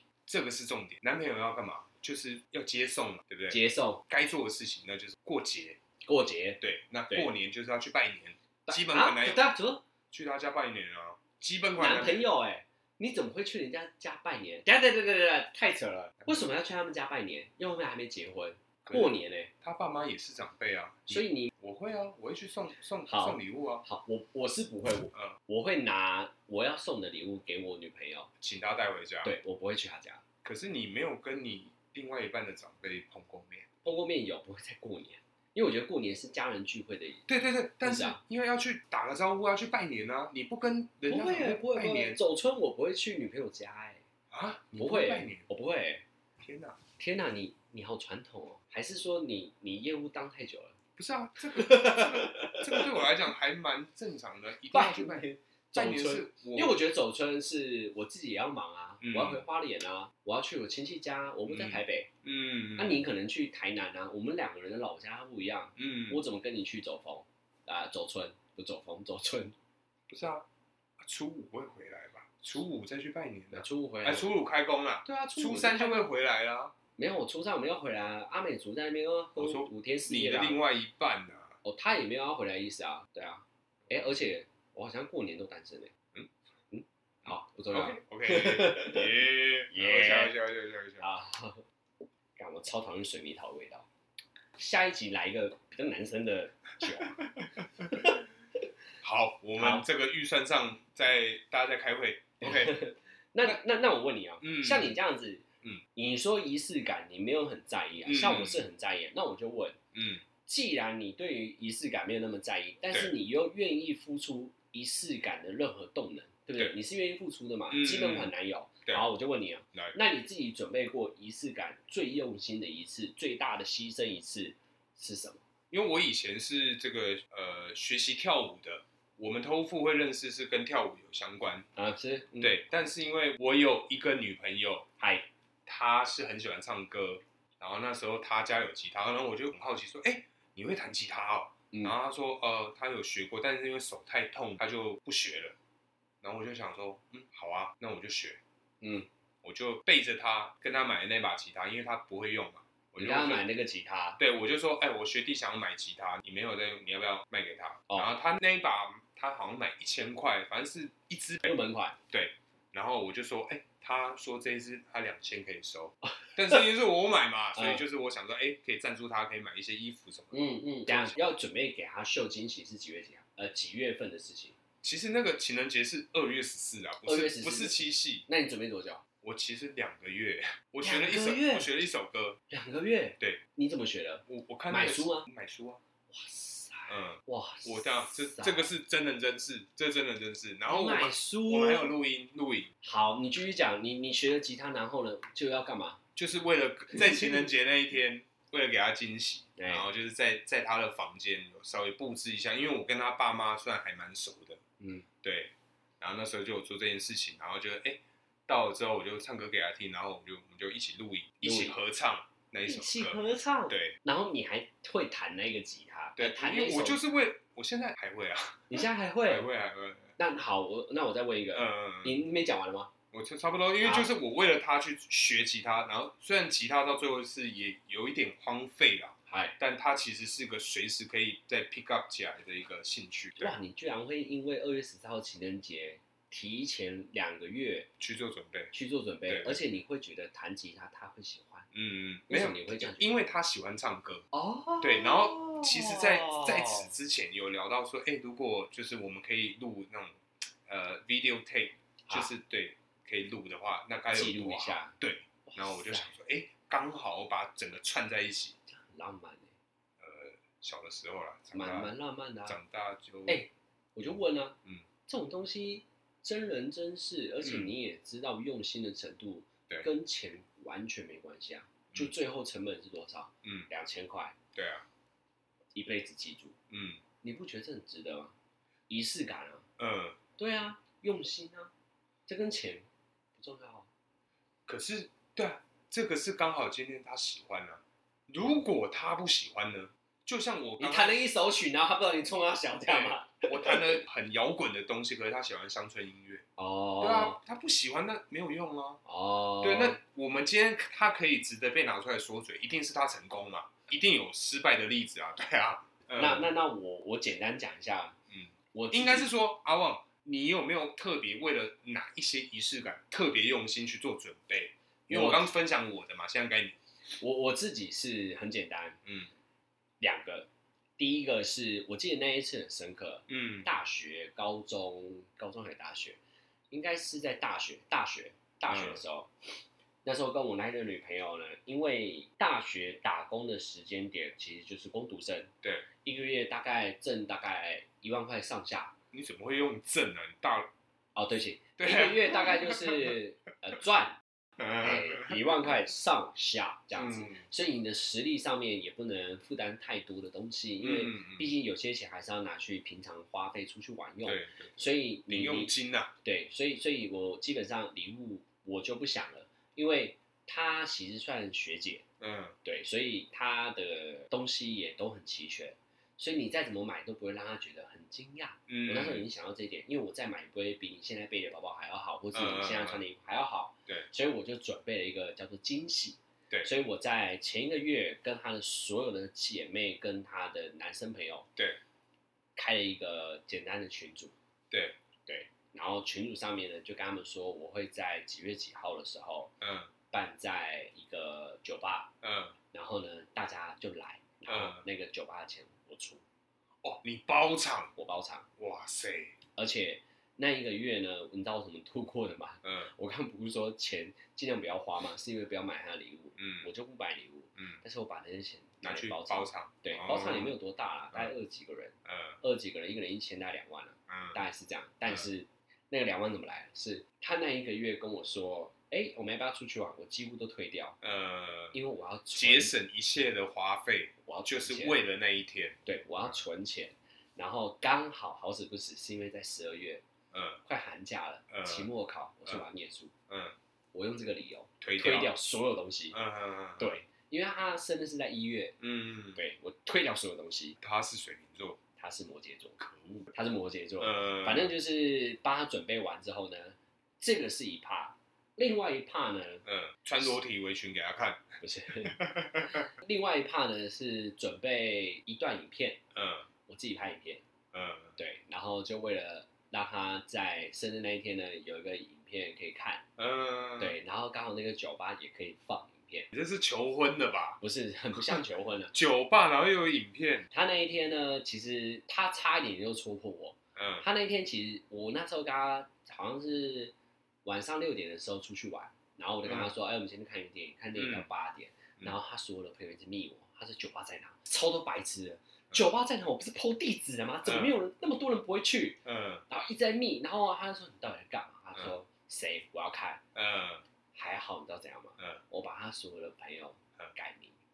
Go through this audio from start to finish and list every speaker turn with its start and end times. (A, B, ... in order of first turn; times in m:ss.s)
0:00.2-0:03.6 A
0:03.5-0:04.0 B
0:04.1-0:05.8 A
0:06.0-0:07.3 B
0:06.6-0:09.5 A
0:08.6-0:09.8 B
0:10.1-0:12.2 A
0:11.8-0:19.5 B
0:18.8-0:23.8 A
0:21.1-0:21.5 B
0:23.1-0:28.3 B
0:28.4-0:29.4 A
0:29.2-0:30.2 B
0:30.4-0:33.7 A
0:33.8-0:37.2 B
0:37.3-0:42.2 A
0:37.8-0:38.2 B
0:41.1-0:44.0 B
0:44.3-0:45.4 A
0:44.8-0:46.0 B
0:46.4-0:46.8 A
0:47.0-0:50.8 B
0:51.0-0:56.8 A
0:51.5-0:53.0 B
0:54.7-1:02.1 B
0:59.0-0:59.4 A
1:01.5-1:03.0 A
1:02.8-1:09.5 B
1:05.8-1:06.2 A
1:10.1-1:10.4 A
1:11.0-1:16.7 A
1:13.5-1:14.3 B
1:15.0-1:16.1 B
1:17.0-1:20.6 B
1:19.4-1:21.6 A
1:21.6-1:25.9 B
1:26.7-1:30.3 B
1:27.7-1:31.0 A
1:31.0-1:31.6 B
1:32.4-1:33.8 B
1:34.6-1:37.3 B
1:36.8-1:38.1 A
1:37.8-1:38.3 B
1:39.0-1:42.8 A
1:39.6-1:39.8 B
1:42.4-1:49.8 B
1:44.4-1:45.0 A
1:48.0-1:48.7 A
1:49.9-1:50.2 A
1:50.4-2:05.4 B
1:57.7-1:58.3 A
2:05.7-2:11.7 A
2:11.8-2:12.6 B
2:12.4-2:14.9 A
2:15.0-2:15.3 B
2:15.6-2:25.5 A
2:26.2-2:28.4 A
2:28.8-2:29.1 B
2:29.4-2:33.4 A
2:33.0-2:34.2 B
2:34.2-2:41.5 A
2:41.4-2:42.0 B
2:42.1-2:51.2 A
2:47.5-2:47.8 B
2:50.3-2:54.5 B
2:54.8-2:58.2 A
2:57.0-2:59.0 B
2:59.2-3:02.4 A
3:00.8-3:01.7 B
3:02.5-3:05.3 B
3:04.3-3:05.8 A
3:06.1-3:08.7 B
3:06.9-3:12.7 A
3:10.7-3:11.9 B
3:12.8-3:16.0 B
3:16.2-3:24.6 A
3:19.6-3:19.8 B
3:24.8-3:25.0 B
3:25.2-3:33.9 A
3:31.4-3:31.8 B
3:32.6-3:37.0 B
3:36.2-3:40.1 A
3:38.7-3:39.5 B
3:40.2-3:42.9 B
3:41.5-3:42.2 A
3:43.1-3:53.5 A
3:43.8-3:44.1 B
3:49.3-3:49.6 B
3:53.4-3:57.9 B
3:58.0-3:58.7 A
3:58.7-4:01.7 B
3:59.3-3:59.6 A
4:01.7-4:04.2 A
4:02.3-4:03.2 B
4:04.3-4:06.9 B
4:04.8-4:18.6 A
4:14.1-4:14.9 B
4:15.4-4:16.1 B
4:18.7-4:19.5 B
4:20.0-4:21.9 A
4:21.5-4:22.6 B
4:22.4-4:23.4 A
4:23.3-4:24.6 B
4:25.1-4:34.4 B
4:27.4-4:27.7 A
4:34.5-4:34.8 A
4:35.7-4:36.6 B
4:36.7-4:37.0 A
4:37.2-4:38.3 B
4:38.9-4:39.7 B
4:39.8-4:40.2 A
4:40.4-4:41.7 B
4:42.3-4:42.8 B
4:43.4-4:43.9 B
4:44.7-4:51.3 A
4:50.8-4:54.0 B
4:52.8-4:56.4 A
4:56.6-4:57.4 B
4:57.0-4:59.0 A
4:59.0-5:00.0 B
4:59.6-5:06.5 A
5:06.2-5:08.2 B
5:08.3-5:16.8 A
5:08.7-5:09.3 B
5:15.1-5:15.5 B
5:17.2-5:19.0 B
5:19.0-5:19.3 A
5:20.0-5:26.2 B
5:23.3-5:23.7 A
5:26.7-5:29.3 B
5:28.7-5:29.0 A
5:30.0-5:35.5 B
5:36.0-5:38.9 B
5:39.1-5:40.7 A
5:41.2-5:44.2 B
5:41.8-5:43.2 A
5:44.6-5:45.7 A
5:44.8-5:55.7 B
5:46.9-5:47.4 A
5:50.8-5:51.5 A
5:54.2-5:56.1 A
5:56.2-6:02.0 B
6:02.2-6:02.5 A
6:02.6-6:21.4 B
6:08.7-6:09.3 A
6:12.3-6:13.0 A
6:22.6-6:24.3 B
6:24.7-6:25.0 A
6:25.3-6:29.5 B
6:29.6-6:29.9 A
6:30.1-6:32.1 B
6:32.2-6:32.5 A
6:32.7-6:36.2 B
6:34.5-6:34.8 A
6:36.8-6:37.9 A
6:38.0-6:38.5 B
6:38.6-6:39.4 A
6:39.6-7:01.0 B
6:42.6-6:42.9 A
6:46.4-6:46.7 A
6:48.8-6:50.5 A
6:52.0-6:52.4 A
6:54.1-6:54.4 A
7:01.0-7:01.8 A
7:01.7-7:02.7 B
7:02.3-7:05.8 A
7:04.2-7:05.0 B
7:05.8-7:10.0 B
7:10.3-7:10.6 A
7:10.6-7:13.1 B
7:11.5-7:11.9 A
7:13.3-7:13.5 A
7:13.9-7:16.2 B
7:14.8-7:15.3 A
7:16.1-7:16.9 A
7:16.8-7:18.8 B
7:18.8-7:19.4 A
7:19.3-7:20.8 B
7:20.8-7:21.8 A
7:22.0-7:22.8 B
7:22.8-7:23.3 A
7:23.3-7:29.6 B
7:24.0-7:24.7 A
7:29.6-7:31.4 A
7:31.6-7:36.0 B
7:32.0-7:32.9 A
7:36.1-7:36.5 A
7:36.7-7:37.4 B
7:37.7-7:38.1 A
7:38.2-7:43.0 B
7:43.2-7:44.0 A
7:43.8-7:46.3 B
7:46.3-7:47.6 A
7:47.6-7:48.9 B
7:48.9-7:50.4 A
7:50.5-7:56.9 B
7:53.8-7:54.0 A
7:57.4-8:13.2 B
7:59.4-7:59.7 A
8:01.0-8:01.2 A
8:07.4-8:07.8 A
8:09.0-8:09.4 A
8:13.3-8:13.8 A
8:14.1-8:17.5 B